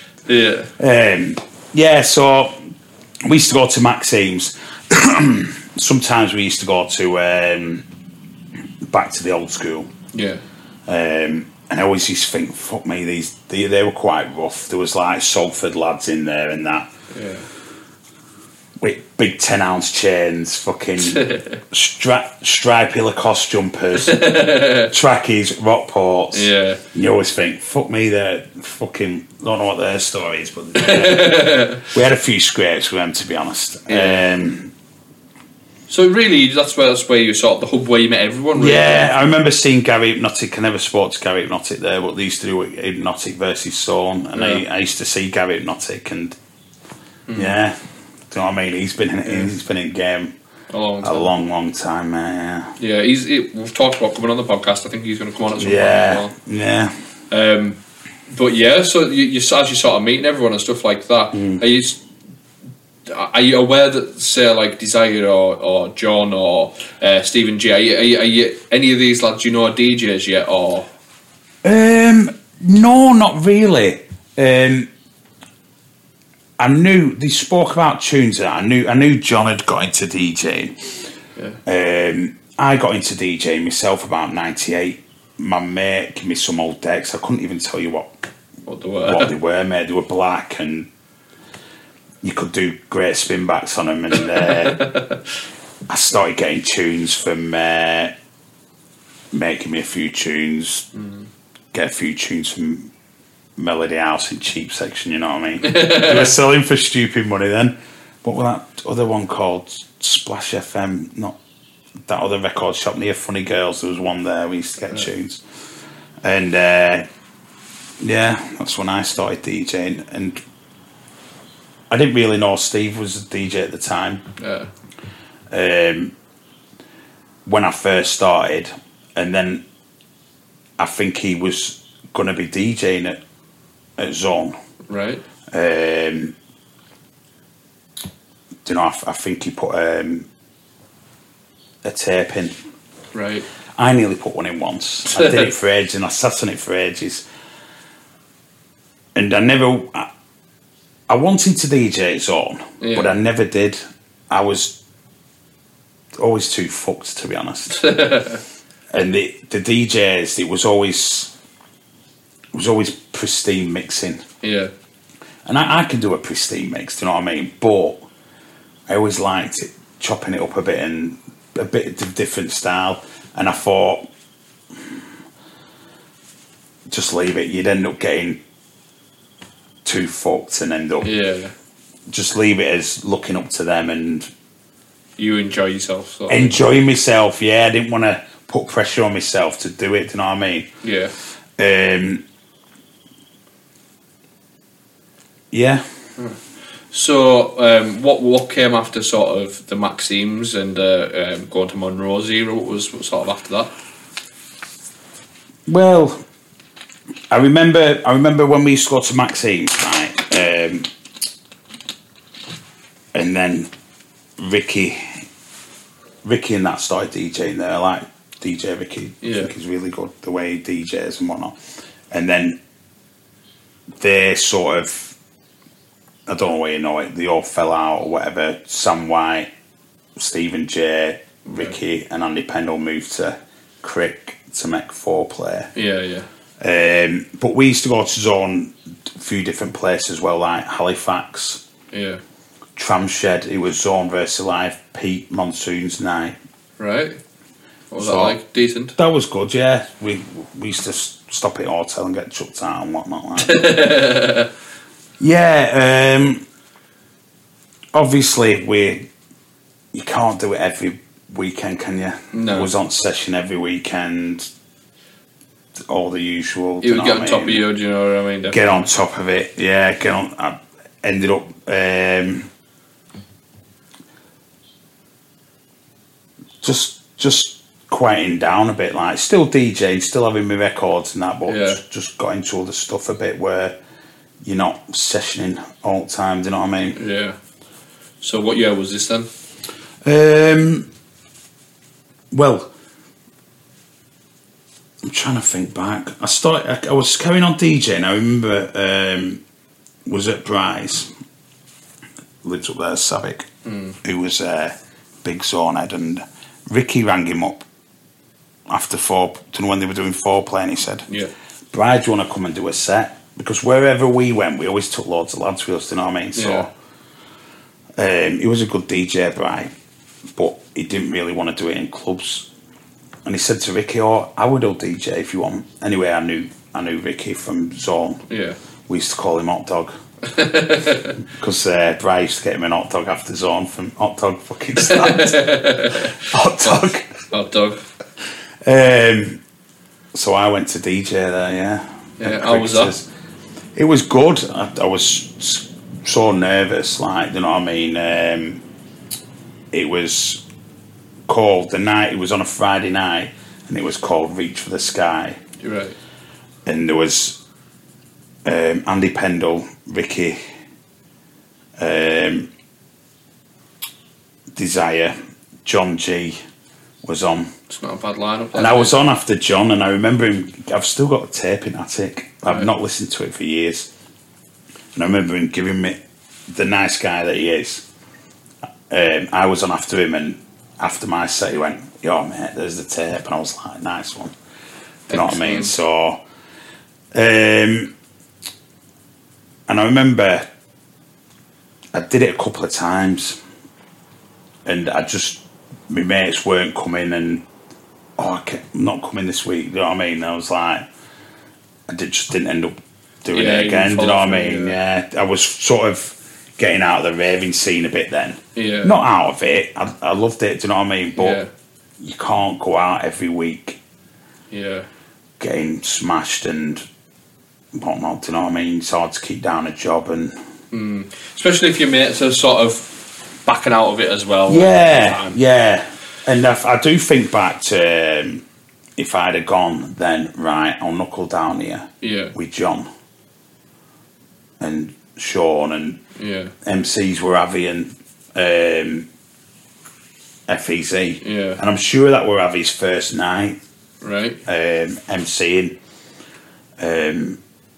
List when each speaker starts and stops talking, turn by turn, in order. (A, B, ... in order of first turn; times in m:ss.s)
0:00.3-0:00.7 A
0:00.8-0:02.6 B
0:03.2-0:07.8 B
0:08.8-0:09.9 B
0:10.1-0:10.4 A
0:10.9-0:16.9 B
0:17.1-0:17.5 A
0:18.8-0:34.7 B
0:21.0-0:21.6 A
0:24.0-0:24.9 A
0:26.3-0:26.8 A
0:30.8-0:31.9 A
0:33.9-0:34.3 A
0:35.9-0:39.1 A
0:38.5-0:46.4 B
0:44.3-0:44.6 A
0:47.3-0:47.6 A
0:47.3-0:47.8 B
0:48.3-0:50.3 B
0:49.2-0:49.5 A
0:50.7-0:51.3 A
0:51.0-0:52.7 B
0:52.8-0:56.3 A
0:55.5-0:56.9 B
0:57.3-1:02.0 A
1:01.3-1:01.6 B
1:03.1-1:10.9 A
1:11.6-1:14.9 B
1:16.6-1:20.9 B
1:21.6-1:28.1 B
1:28.6-1:29.3 A
1:29.0-1:30.9 B
1:32.2-1:34.8 B
1:34.3-1:35.2 A
1:35.9-1:38.1 B
1:39.3-1:40.9 B
1:40.9-1:41.2 A
1:41.7-1:42.9 B
1:43.6-1:51.4 B
1:45.6-1:46.3 A
1:52.0-1:55.4 B
1:56.2-1:57.0 B
1:58.0-2:00.4 B
2:01.9-2:04.2 B
2:04.4-2:04.7 A
2:05.5-2:06.1 B
2:07.4-2:09.6 B
2:10.8-2:13.2 B
2:14.0-2:14.5 B
2:14.9-2:15.2 A
2:15.5-2:16.3 B
2:18.6-2:20.3 B
2:21.8-2:22.6 B
2:23.1-2:23.5 A
2:23.7-2:27.2 B
2:25.1-2:25.4 A
2:29.1-2:30.1 B
2:31.1-2:34.8 B
2:32.8-2:33.1 A
2:36.2-2:37.9 B
2:37.7-2:38.4 A
2:38.9-2:41.3 B
2:42.5-2:44.2 B
2:44.4-2:44.7 A
2:45.4-2:48.1 B
2:48.9-2:54.0 B
2:56.9-2:58.4 B
2:59.8-3:01.1 B
3:01.0-3:01.5 A
3:02.1-3:04.3 B
3:05.2-3:06.6 A
3:06.3-3:10.7 B
3:10.8-3:11.1 A
3:11.6-3:12.2 B
3:15.5-3:15.8 B
3:16.9-3:23.7 A
3:25.6-3:26.2 B
3:27.3-3:30.9 B
3:33.1-3:33.7 B
3:34.4-3:35.2 B
3:36.2-3:41.6 B
3:39.2-3:39.5 A
3:42.1-3:42.6 B
3:44.0-3:45.2 B
3:46.3-3:49.5 B
3:50.2-3:55.7 B
3:51.4-3:51.8 A
3:55.7-3:56.3 A
3:56.6-4:01.6 B
4:01.9-4:02.2 A
4:02.8-4:06.4 B
4:06.8-4:07.2 A
4:07.9-4:08.9 A
4:08.0-4:08.4 B
4:09.0-4:13.8 B
4:13.4-4:14.5 A
4:15.2-4:16.4 B
4:17.9-4:19.1 B
4:19.9-4:24.5 B
4:22.3-4:22.7 A
4:25.8-4:27.6 B
4:26.8-4:28.8 A
4:28.5-4:32.5 B
4:36.6-4:43.8 B
4:41.5-4:41.8 A
4:44.4-4:47.0 B
4:47.0-4:47.4 A
4:48.2-4:49.3 A
4:50.0-4:50.9 B
4:52.3-4:52.7 B
4:55.0-4:59.4 B
5:00.0-5:01.1 B
5:02.4-5:03.5 B
5:03.6-5:04.0 A
5:04.0-5:07.6 B
5:08.7-5:11.1 B
5:11.7-5:16.7 B
5:16.4-5:16.7 A
5:18.0-5:19.7 B
5:20.3-5:22.5 B
5:23.2-5:28.2 B
5:28.3-5:28.6 A
5:28.9-5:29.9 B
5:30.3-5:31.2 A
5:31.3-5:37.1 B
5:34.8-5:37.8 A
5:38.6-5:39.4 B
5:40.1-5:43.0 B
5:42.2-5:42.9 A
5:43.7-5:48.6 B
5:49.7-5:50.4 B
5:51.3-5:55.4 B
5:55.6-5:56.0 A
5:56.6-5:57.4 B
5:58.4-6:00.4 B
6:01.8-6:02.5 B
6:04.5-6:06.4 B
6:07.0-6:07.5 B
6:07.7-6:09.0 A
6:08.5-6:13.9 B
6:14.9-6:17.8 B
6:18.9-6:24.3 B
6:25.1-6:26.2 B
6:25.1-6:25.7 A
6:27.1-6:27.9 B
6:29.7-6:30.5 B
6:31.9-6:33.4 B
6:34.6-6:37.4 B
6:38.2-6:40.8 B
6:41.9-6:51.4 B
6:43.3-6:44.8 A
6:48.5-6:49.0 A
6:51.2-6:51.5 A
6:52.0-6:53.8 B
6:54.5-6:54.9 A
6:55.4-6:56.8 B
6:57.7-7:00.3 B
7:00.7-7:05.4 A
7:04.5-7:08.4 B
7:09.0-7:12.9 B
7:12.0-7:12.3 A
7:14.6-7:16.0 B
7:16.2-7:16.5 A
7:16.6-7:19.1 B
7:20.5-7:23.6 B
7:21.2-7:21.6 A
7:24.0-7:24.4 A
7:24.4-7:25.8 B
7:26.8-7:27.4 B